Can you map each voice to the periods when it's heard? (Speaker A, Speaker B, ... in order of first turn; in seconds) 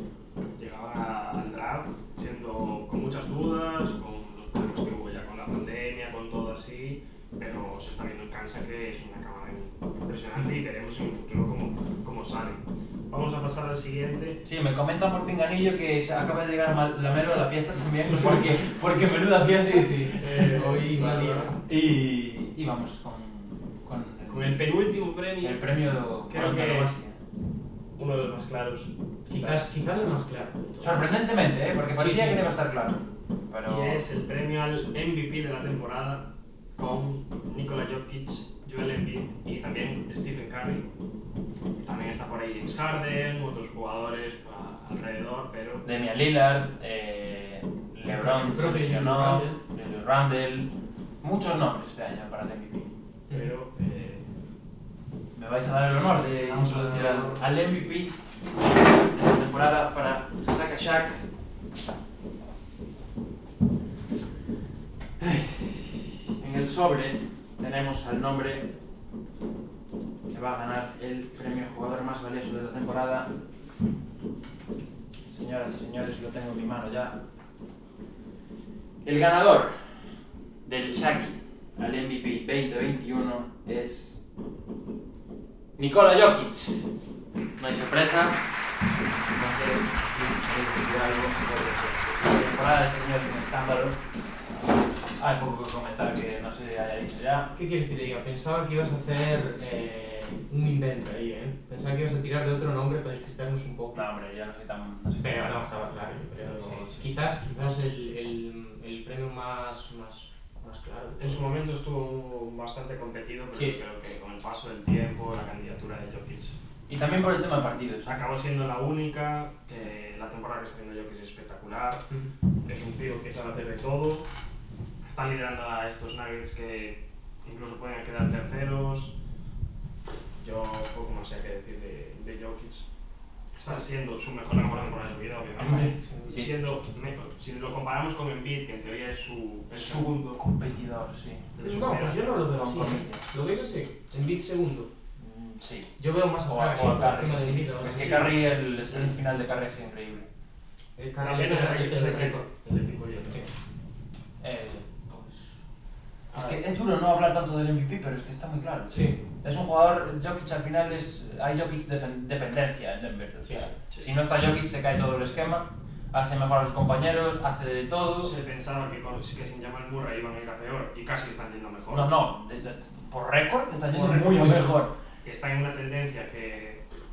Speaker A: 0.5-14.4, 20.2-21.6, 24.3-25.6, 26.3-26.9, 28.0-29.8, 33.7-40.9, 41.8-45.9, 53.3-54.3, 56.4-57.4, 111.2-116.6, 118.0-122.0, 122.7-124.3, 125.0-129.1, 130.4-132.9, 133.5-140.4, 141.6-142.2, 148.9-149.2, 151.2-153.5, 156.3-156.6, 168.2-172.1, 175.2-176.8
Speaker B: 14.4-20.5, 21.7-24.7, 25.4-27.2, 30.8-34.0, 45.8-52.9, 55.3-58.2, 59.1-61.2, 65.2-68.7, 70.3-73.3, 75.3-77.2, 79.0-79.9, 80.7-84.2, 85.8-86.8, 87.6-88.4, 89.3-94.0, 95.2-97.5, 103.9-105.9, 106.5-107.0, 116.9-118.2, 135.6-136.5, 139.7-141.5, 142.3-143.3, 145.2-150.3, 154.4-155.1, 156.3-168.3, 171.9-174.9
Speaker C: 19.6-21.6, 29.3-31.1, 31.9-32.5, 48.1-49.6, 56.5-57.4, 97.5-104.0, 105.2-111.4, 113.5-113.8, 136.1-136.3, 141.6-144.9, 146.0-148.4, 151.0-152.6, 158.9-159.2, 163.4-163.7, 173.9-174.8